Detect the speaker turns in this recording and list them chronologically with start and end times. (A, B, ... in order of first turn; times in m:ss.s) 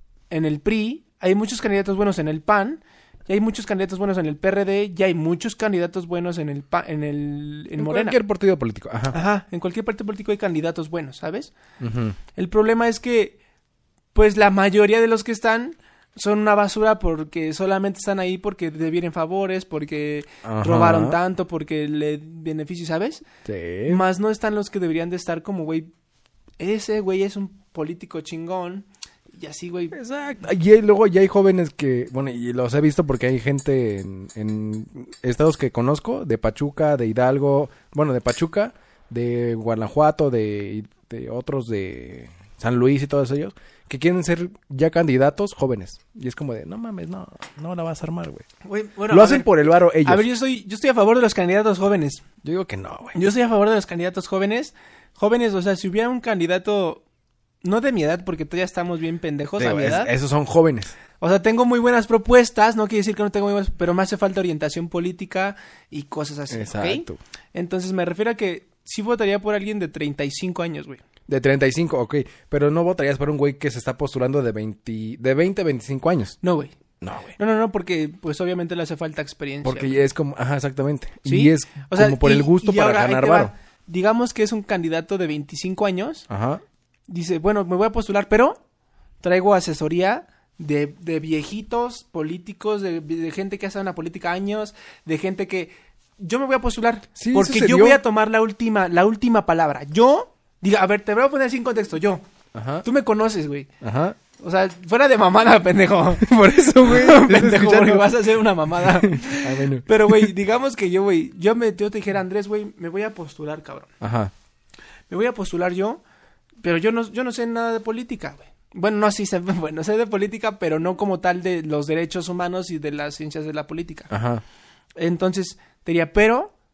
0:00.3-0:08.2 A
0:07.8-0:09.2 B
0:09.1-0:11.5 A
0:11.8-0:12.2 B
0:12.4-0:13.4 A
0:14.1-0:23.2 A
0:20.4-0:21.2 B
0:23.4-0:24.0 B
0:23.9-0:25.9 A
0:26.6-0:29.9 A
0:29.9-0:48.5 B
0:48.6-0:52.2 A
0:49.1-0:50.3 B
0:52.4-0:53.2 B
0:53.2-0:57.0 A
0:57.6-1:00.1 A
0:59.6-1:01.0 B
1:01.2-1:11.0 A
1:06.5-1:07.2 B
1:11.3-1:16.4 B
1:16.4-1:16.8 A
1:17.0-1:17.4 B
1:17.4-1:20.0 A
1:19.6-1:23.5 B
1:21.2-1:26.3 A
1:26.3-1:26.6 B
1:27.1-1:28.6 A
1:29.2-1:42.2 A
1:37.2-1:38.0 B
1:42.5-1:42.8 B
1:42.8-1:43.7 A
1:43.8-1:44.2 B
1:44.4-1:53.9 A
1:46.2-1:50.3 B
1:54.0-1:54.3 B
1:55.1-1:56.0 A
1:56.6-2:04.1 A
2:04.1-2:04.4 B
2:05.0-2:06.5 A